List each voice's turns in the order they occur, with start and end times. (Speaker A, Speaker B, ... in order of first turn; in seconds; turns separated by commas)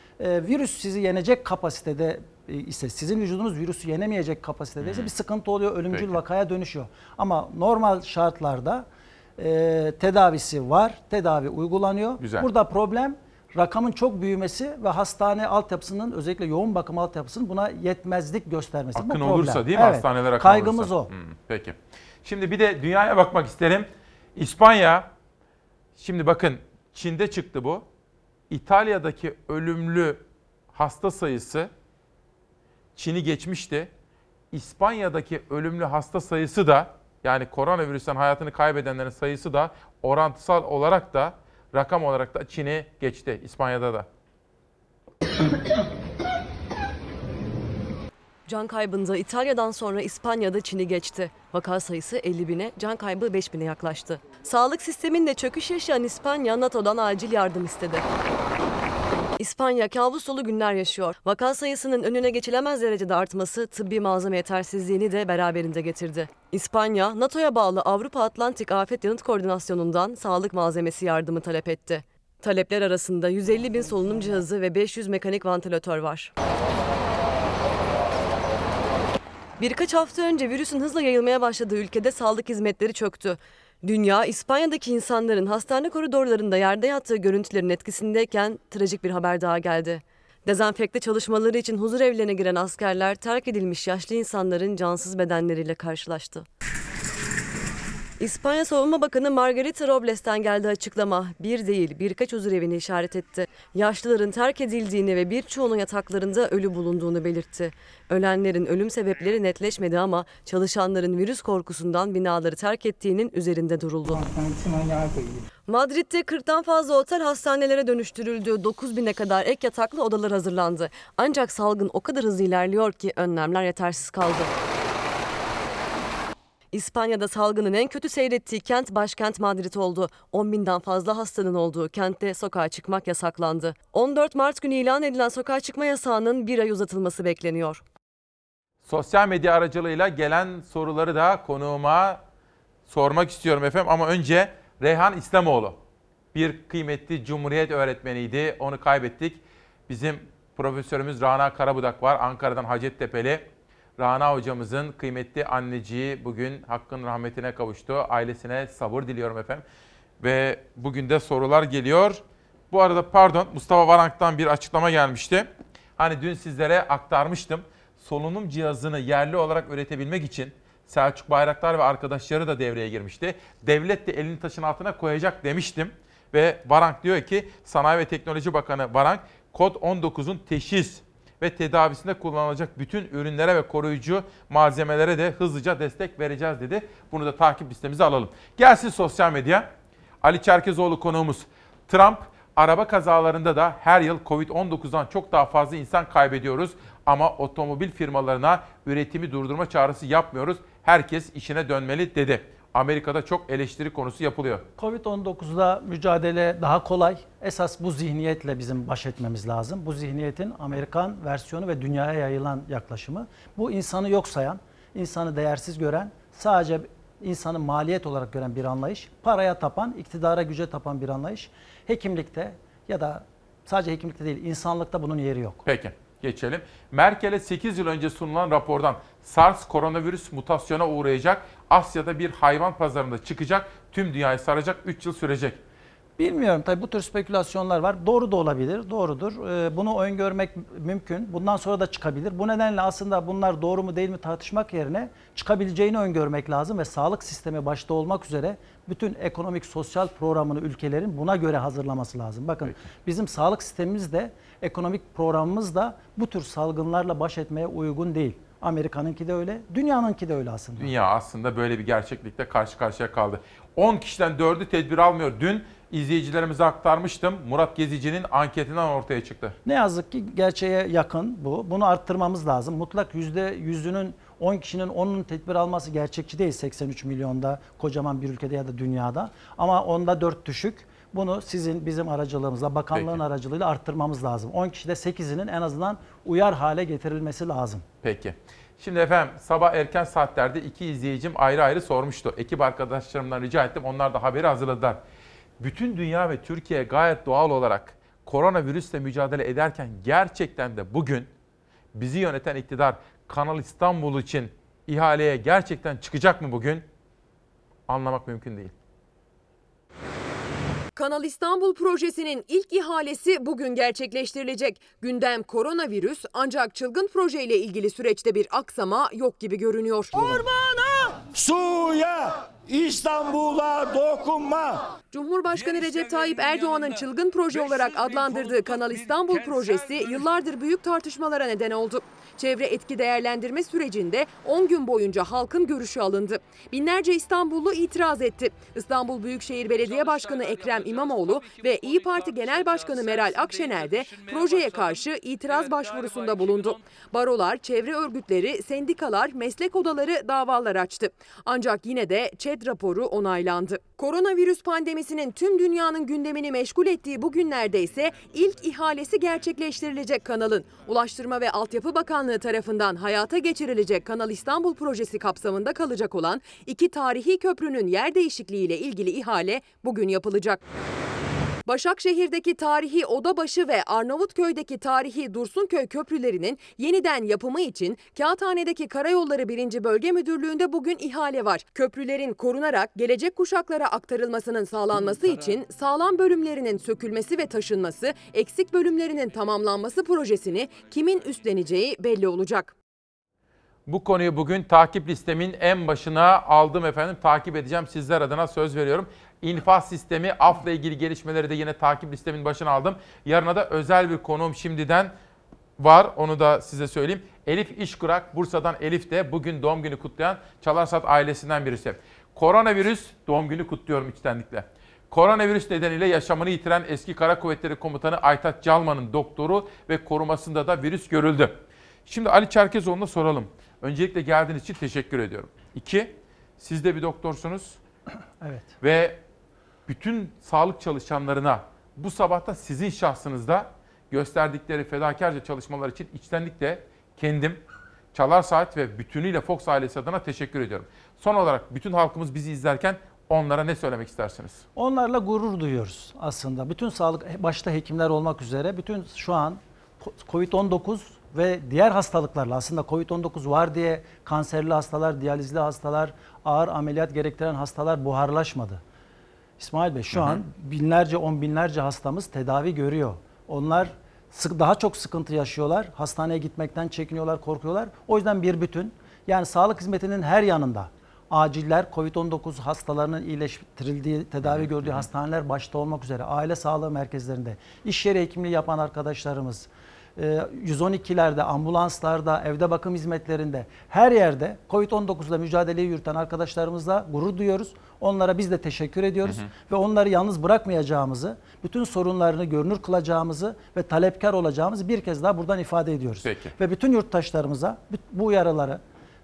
Speaker A: 0.2-8.9, Speaker B: 4.8-5.1, Speaker B: 5.9-6.2, Speaker A: 9.4-21.1, Speaker B: 12.2-12.5, Speaker B: 18.9-25.1, Speaker B: 26.0-27.9, Speaker B: 28.5-31.7, Speaker B: 33.0-33.9, Speaker B: 34.5-44.1, Speaker C: 48.5-58.1, Speaker C: 59.4-76.3, Speaker C: 79.6-96.5, Speaker C: 98.2-114.2, Speaker C: 115.7-124.5, Speaker C: 126.7-137.8, Speaker B: 138.8-142.2, Speaker B: 142.9-145.8, Speaker B: 146.3-159.6, Speaker B: 160.2-189.7, Speaker B: 190.2-204.7, Speaker A: 204.8-225.6, Speaker B: 225.7-235.6, Speaker A: 236.2-260.9, Speaker B: 260.8-269.6, Speaker A: 269.6-287.8, Speaker B: 282.9-283.2, Speaker B: 288.0-295.0, Speaker B: 295.6-301.3, Speaker B: 301.9-306.9, Speaker B: 307.9-308.7, Speaker D: 311.0-320.4, Speaker E: 320.1-324.9, Speaker D: 325.1-370.6, Speaker E: 340.1-341.2, Speaker E: 341.9-342.2, Speaker E: 343.0-344.7, Speaker E: 345.5-346.7, Speaker D: 371.7-392.7, Speaker B: 393.9-405.1, Speaker B: 405.8-427.8, Speaker A: 428.4-428.7, Speaker B: 428.8-429.2, Speaker B: 429.9-437.6, Speaker B: 438.1-444.6, Speaker A: 444.8-458.8, Speaker A: 459.6-498.8, Speaker B: 460.1-460.4, Speaker B: 474.4-475.1, Speaker B: 496.2-496.5